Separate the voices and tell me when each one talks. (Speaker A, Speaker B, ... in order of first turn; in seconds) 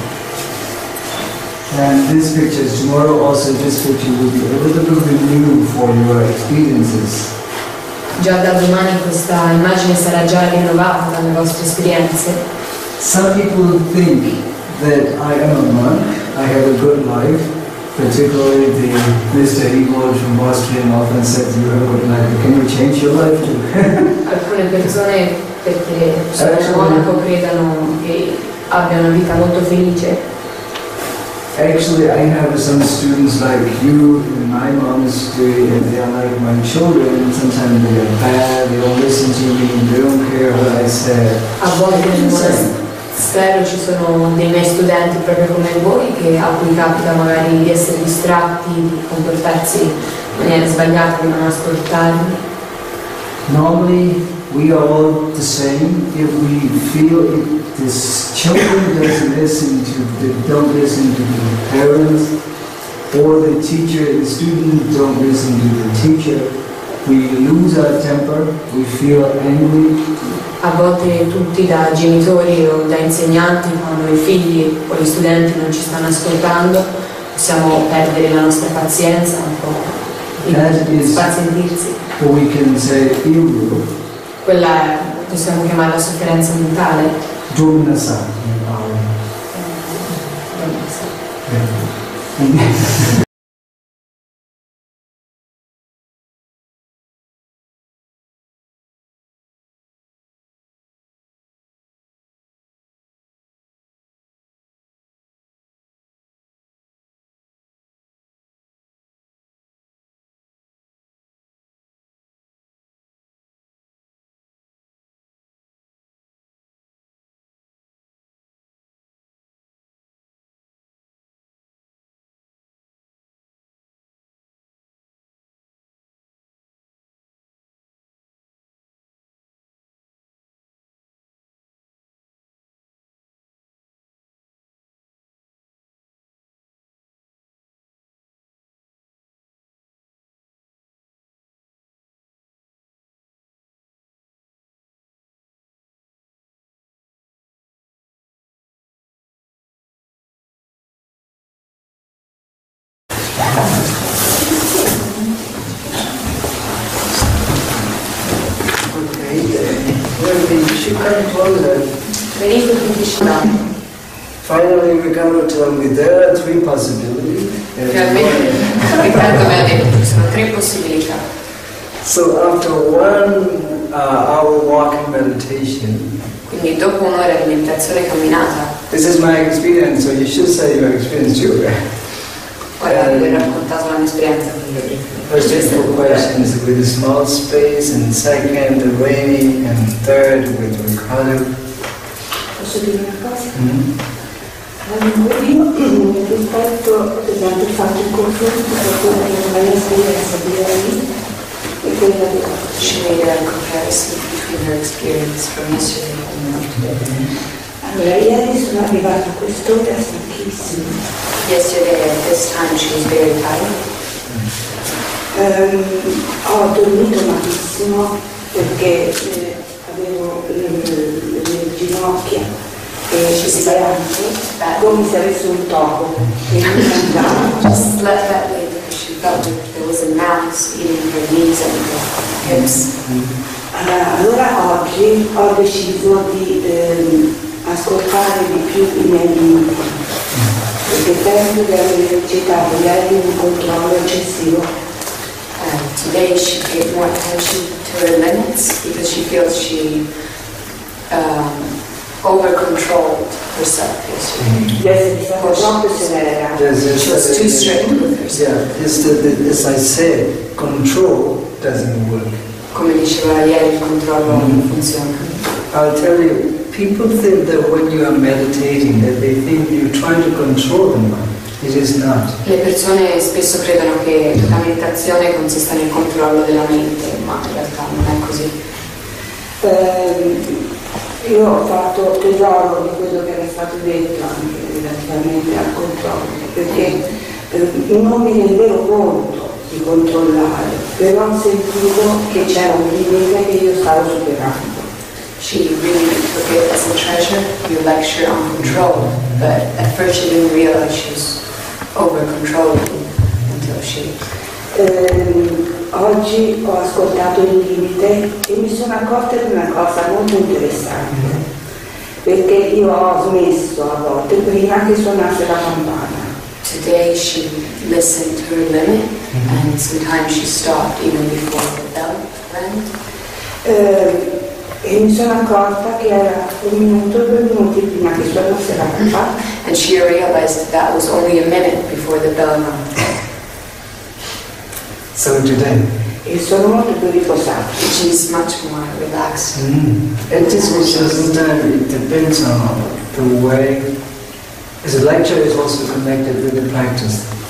Speaker A: 1.7-7.3, 13.0-24.2, 26.4-27.1, 31.5-42.7, 53.5-62.4, 63.1-70.0, 80.4-81.3, 82.2-83.9, 87.5-89.2, 91.4-93.1, 158.8-162.0, 164.4-169.4, 172.0-176.1, 178.9-183.5, 185.3-191.5, 193.5-193.9, 206.9-207.3, 232.4-233.3, 254.4-254.8, 256.5-262.4, 264.2-264.6, 265.7-272.4, 299.1-299.4, 311.1-311.4, 319.3-319.6, 335.1-335.9, 339.5-343.9, 344.8-347.3
Speaker B: 8.2-12.4, 24.2-30.2, 41.6-52.4, 70.6-82.0, 84.4-87.3, 89.5-91.7, 162.2-163.7, 167.9-171.2, 176.4-178.7, 182.8-186.2, 202.8-207.1, 211.3-214.1, 223.2-225.1, 227.6-233.0, 245.6-250.1, 251.1-254.7, 255.3-256.1, 256.8-258.5, 262.7-265.4, 272.4-278.6, 286.7-287.0, 292.4-292.8, 295.4-304.3, 316.6-322.9, 329.4-333.1, 337.8-339.7, 340.3-341.3
Speaker C: 192.6-193.6, 194.8-201.1, 201.8-203.0, 207.8-210.9, 215.3-222.5, 223.1-224.1, 224.7-227.7, 233.7-240.0, 240.8-244.7, 254.7-256.6, 279.6-280.6, 281.2-294.9, 304.7-311.4, 312.2-316.3, 323.6-329.3, 336.2-337.8